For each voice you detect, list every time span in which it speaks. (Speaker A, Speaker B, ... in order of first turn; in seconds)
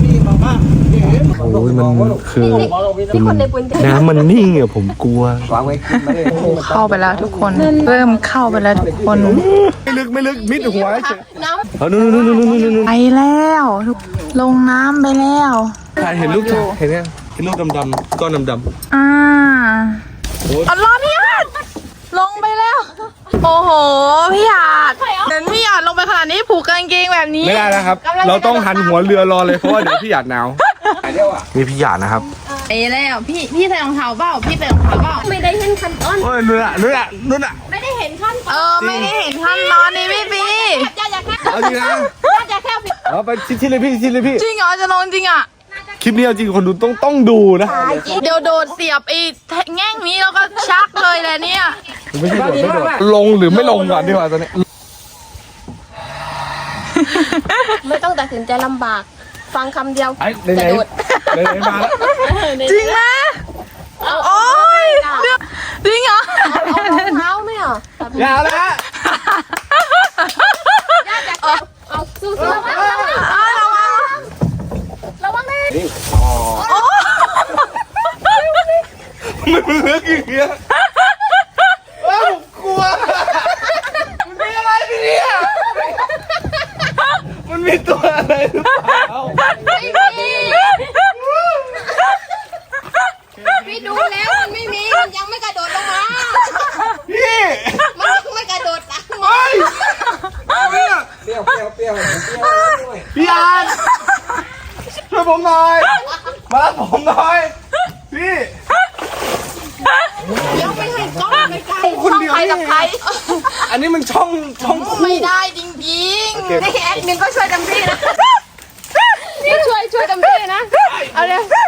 Speaker A: 1.1-5.8, 9.2-11.2, 11.8-12.9, 15.9-18.7, 27.4-30.6, 31.5-32.2, 36.2-37.6, 38.8-39.1, 41.4-42.1, 43.0-44.4, 46.0-47.9, 52.1-54.5, 60.2-62.2, 68.1-68.8, 76.1-76.7, 79.2-80.6, 82.0-86.0, 87.2-89.4, 91.1-91.9, 97.0-98.0, 99.2-101.1, 103.1-104.1, 105.0-107.5, 108.1-108.6, 111.6-112.9, 113.6-115.3, 116.3-116.7
Speaker B: 2.6-4.1, 7.5-8.2, 10.4-11.7, 24.8-25.3, 28.0-29.3, 35.1-36.3, 37.7-43.0, 47.6-48.6, 53.5-54.2, 57.8-60.9, 61.7-63.0, 64.0-65.3, 66.4-68.5, 71.0-74.2, 75.2-75.9, 76.6-77.3, 78.3-78.7, 89.6-90.7, 93.4-96.9, 97.9-100.0, 110.4-112.2, 116.6-118.4, 119.2-121.5
Speaker C: 5.9-9.4, 12.7-15.9, 18.9-20.0, 20.6-21.5, 22.1-27.8, 32.6-35.3, 38.5-40.9, 44.3-45.5, 48.1-51.8, 57.0-57.6, 61.1-63.4, 64.0-67.1, 69.0-71.6, 72.7-74.2, 76.6-77.7, 110.5-110.8, 111.9-113.7, 114.7-116.7
Speaker D: 31.1-31.4, 52.3-53.0, 89.4-90.6, 101.2-103.1